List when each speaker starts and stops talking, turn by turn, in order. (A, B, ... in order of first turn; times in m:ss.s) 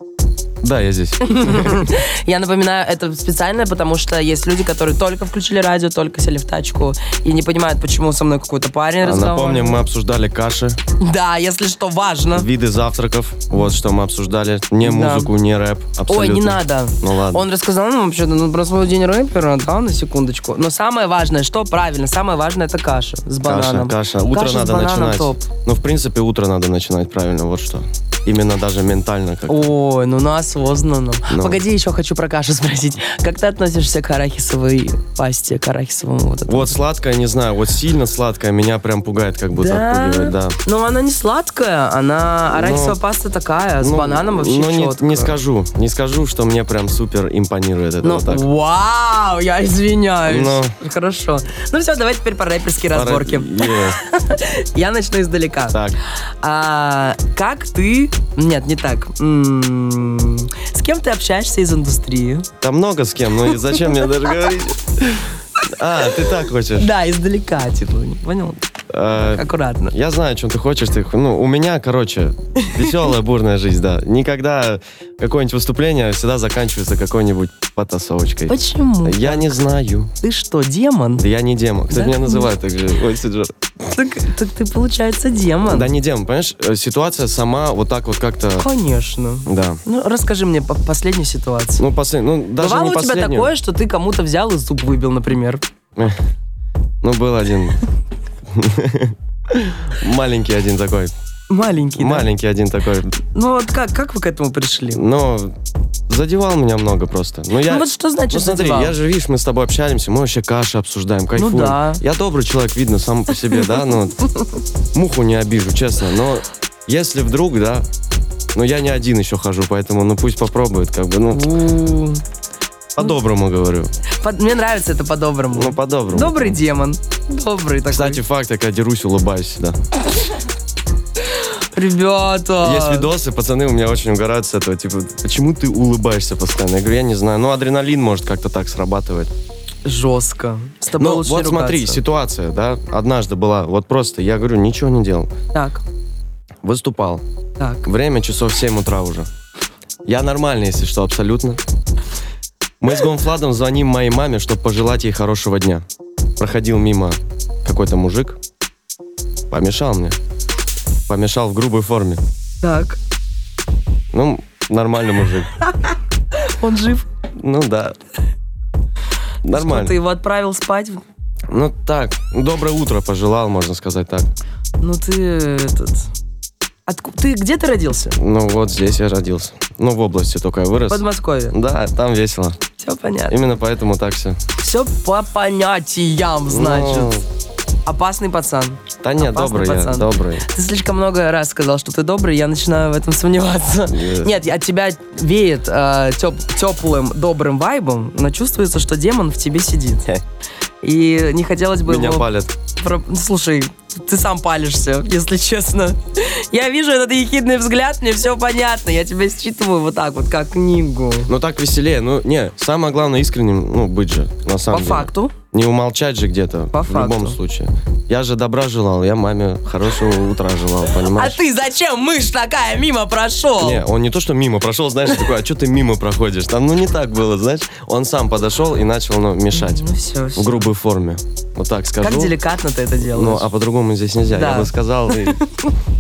0:00.6-0:01.8 A
0:01.2-0:09.8 B
0:09.0-0:10.8 A
0:11.0-0:12.5 B
0:12.3-0:17.5 A
0:14.8-0:15.3 B
0:16.1-0:25.4 B
0:23.4-0:29.7 A
0:29.5-0:36.8 B
0:31.3-0:31.6 A
0:36.5-0:40.6 A
0:39.6-0:45.4 B
0:42.5-0:43.0 A
0:43.8-0:48.5 A
0:48.0-0:55.8 B
0:50.3-0:50.7 A
0:52.9-0:54.0 A
0:55.7-0:56.0 A
0:56.4-1:02.5 B
1:02.6-1:06.9 A
1:06.8-1:08.6 B
1:08.9-1:20.1 A
1:09.2-1:09.9 B
1:12.6-1:12.9 B
1:18.5-1:19.6 B
1:20.2-1:21.2 B
1:21.2-1:23.5 A
1:21.9-1:22.5 B
1:23.9-1:25.9 B
1:25.7-1:28.7 A
1:28.6-1:31.8 B
1:29.5-1:29.8 A
1:31.8-1:33.5 A
1:32.6-1:35.6 B
1:37.0-1:37.8 A
1:38.5-1:41.1 A
1:41.5-1:42.3 B
1:42.0-1:43.1 A
1:43.2-1:45.0 B
1:44.9-1:45.6 A
1:46.1-1:54.2 A
1:47.6-1:49.0 B
1:51.4-1:52.0 B
1:54.9-1:57.9 A
1:58.5-2:01.5 A
2:01.3-2:02.2 B
2:03.0-2:03.9 A
2:04.2-2:08.2 B
2:05.5-2:06.6 A
2:07.9-2:09.8 A
2:11.3-2:13.1 B
2:12.6-2:19.3 A
2:19.8-2:22.0 B
2:21.0-2:25.3 A
2:25.5-2:25.8 B
2:26.6-2:27.2 A
2:27.6-2:27.9 B
2:27.8-2:29.3 A
2:30.0-2:31.6 A
2:32.8-2:35.8 A
2:36.4-2:38.4 A
2:39.5-2:40.2 A
2:41.1-2:42.2 A
2:42.6-2:43.0 B
2:44.1-2:45.5 A
2:46.4-2:47.1 B
2:47.4-2:48.0 A
2:49.4-2:50.0 A
2:49.5-2:51.0 B
2:51.5-2:54.3 A
2:54.8-2:56.1 B
2:56.9-2:58.2 B
2:58.2-3:02.6 A
3:00.9-3:01.6 B
3:02.8-3:03.4 B
3:03.3-3:04.4 A
3:04.6-3:07.2 B
3:06.5-3:07.2 A
3:07.9-3:20.1 B
3:09.0-3:10.5 A
3:13.9-3:14.4 A
3:20.8-3:31.3 B
3:21.8-3:22.5 A
3:31.3-3:41.4 A
3:34.7-3:35.3 B
3:36.7-3:37.4 B
3:40.9-3:43.8 B
3:43.6-3:52.4 A
3:49.5-3:50.7 B
3:52.0-3:53.5 B
3:53.0-3:55.4 A
3:54.3-3:55.5 B